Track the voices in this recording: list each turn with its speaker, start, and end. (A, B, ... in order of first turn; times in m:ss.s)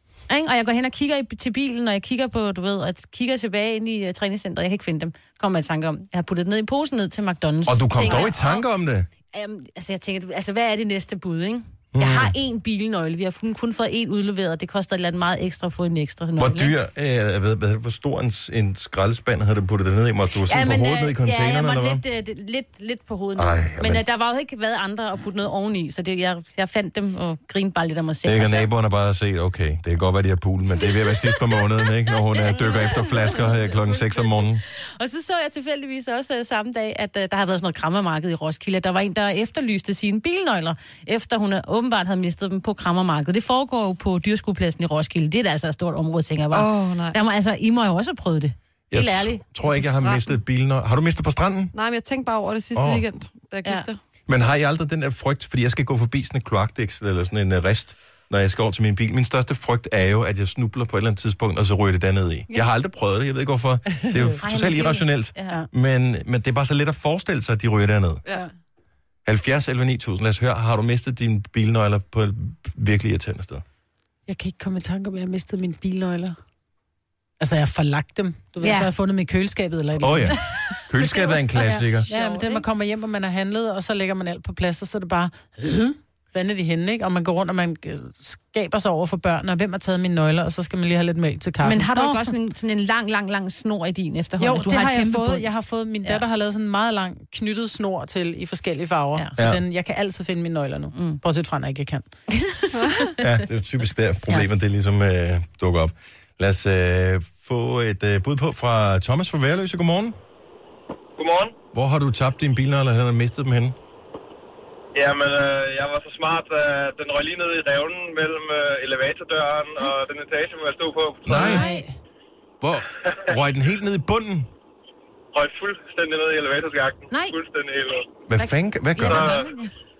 0:00.3-0:08.6 A
0:07.6-0:09.1 B
0:09.3-0:16.7 A
0:11.9-0:12.3 B
0:16.4-0:22.0 B
0:20.5-0:28.7 A
0:23.4-0:24.0 B
0:28.2-0:34.6 B
0:30.8-0:49.4 A
0:46.5-0:47.2 C
0:48.9-0:51.7 B
0:49.8-0:50.2 C
0:51.7-0:54.0 C
0:52.7-0:53.0 B
0:54.3-1:08.2 B
1:04.4-1:05.6 A
1:09.2-1:13.6 B
1:14.3-1:16.4 D
1:17.4-1:20.4 D
1:18.6-1:18.9 A
1:20.0-1:22.1 B
1:20.7-1:22.6 A
1:21.6-1:32.2 D
1:31.6-1:35.4 A
1:34.4-1:42.1 D
1:39.4-1:39.6 B
1:42.3-1:43.1 A
1:42.7-1:43.1 C
1:43.2-1:50.2 B
1:51.2-1:51.5 E
1:51.7-1:53.8 B
1:54.9-2:01.5 E
2:01.2-2:01.6 B
2:01.3-2:01.9 A
2:01.3-2:01.9 D
2:02.6-2:04.5 B
2:05.3-2:08.2 E
2:07.1-2:07.4 A
2:08.3-2:09.3 B
2:08.9-2:09.7 A
2:09.0-2:09.5 E